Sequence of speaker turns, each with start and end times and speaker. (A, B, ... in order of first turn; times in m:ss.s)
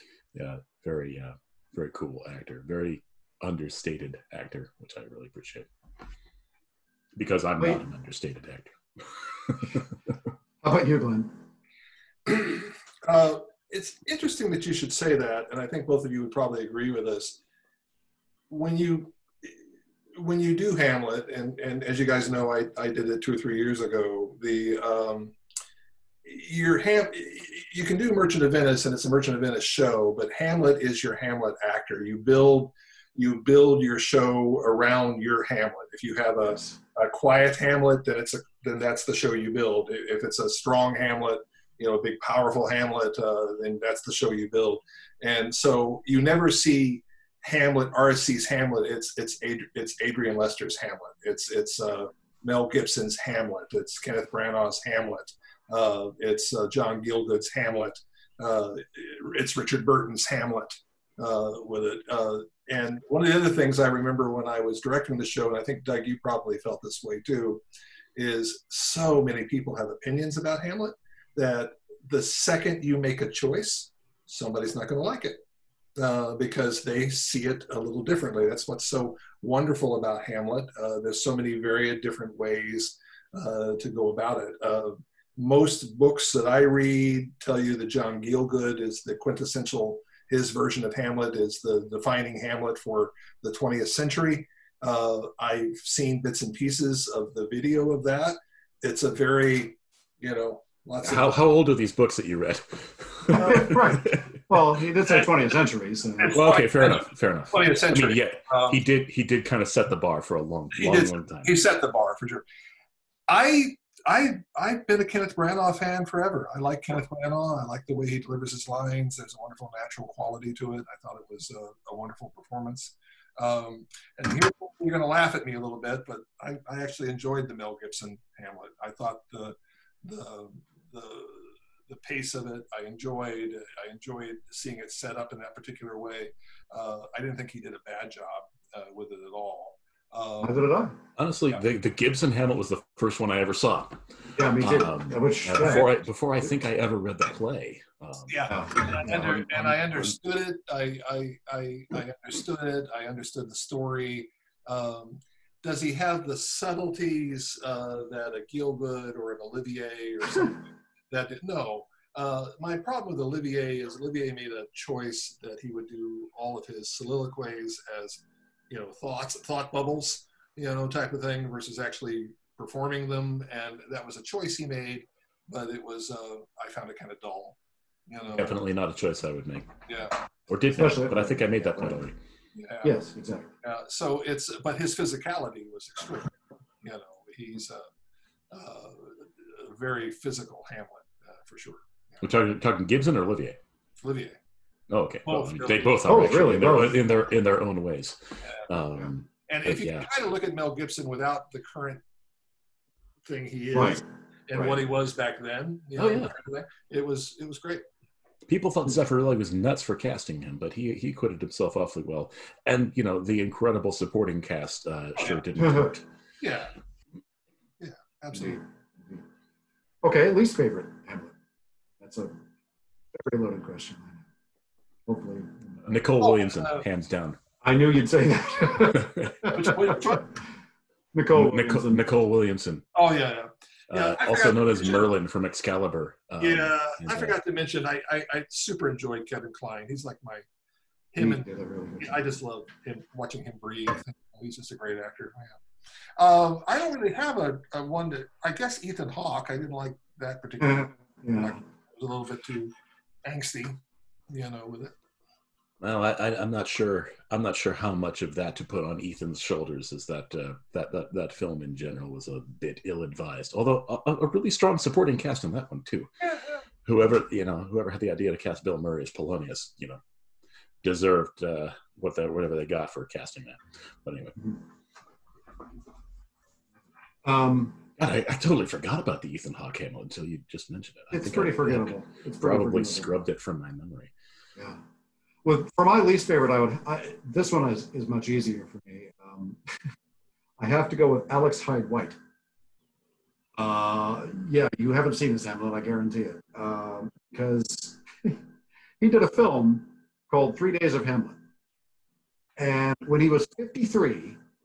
0:00.3-0:05.7 A
0:07.2-0:09.9 A
0:10.6-0:11.4 B
0:12.3-0:17.4 C
0:18.5-0:19.6 C
0:20.1-0:25.3 C
0:26.2-1:07.6 C
1:08.2-1:15.4 C
1:16.0-1:41.3 C
1:41.0-1:44.4 A
1:43.3-1:46.4 B
1:43.4-1:43.8 C
1:46.2-1:48.8 C
1:46.3-1:51.5 A
1:50.7-1:52.4 C
1:53.3-2:20.7 C
2:20.4-2:21.0 B
2:21.2-2:24.0 A
2:24.3-2:25.9 B
2:24.5-2:28.7 A
2:25.6-2:25.9 C
2:28.3-2:57.6 C
2:28.5-2:30.0 B
2:58.1-2:58.6 C
2:58.3-2:59.8 A
2:59.9-3:00.1 C
3:00.5-3:02.1 A
3:00.7-3:02.0 B
3:02.6-3:03.0 C
3:02.8-3:03.5 B
3:03.6-3:07.8 C
3:08.5-3:12.2 C
3:12.2-3:13.6 A
3:14.0-3:14.4 C
3:14.9-3:20.1 A
3:15.2-3:15.9 C
3:16.0-3:17.0 B
3:19.5-3:22.0 C
3:23.2-3:27.8 C
3:23.7-3:24.0 B
3:26.0-3:26.3 A
3:28.5-3:36.0 A
3:35.6-3:36.0 B
3:36.4-3:36.7 C
3:37.8-3:38.6 C
3:38.3-3:39.2 B
3:40.0-3:41.4 B
3:42.0-3:42.4 B
3:43.1-3:44.3 B
3:45.1-3:46.0 B
3:45.8-3:47.4 A
3:46.2-3:46.8 C
3:47.6-3:50.2 B
3:48.9-3:49.5 A
3:49.4-3:50.3 C
3:51.1-3:52.0 B
3:51.3-3:52.8 A
3:52.9-3:55.1 C
3:53.9-3:57.4 A
3:56.4-4:00.4 C
4:01.1-4:01.4 C
4:01.2-4:02.2 B
4:02.0-4:05.6 C
4:06.2-4:12.7 C
4:10.6-4:11.6 B
4:13.2-4:13.8 C
4:14.3-4:14.9 C
4:15.8-4:26.2 A
4:26.8-4:30.0 A
4:30.8-4:34.4 A
4:37.2-4:37.9 B
4:38.0-4:44.1 A
4:41.1-4:43.1 B
4:44.6-4:44.8 B
4:45.4-4:49.8 B
4:50.6-4:52.2 B
4:53.6-4:58.4 B
4:59.0-5:01.4 B
5:02.6-5:04.4 B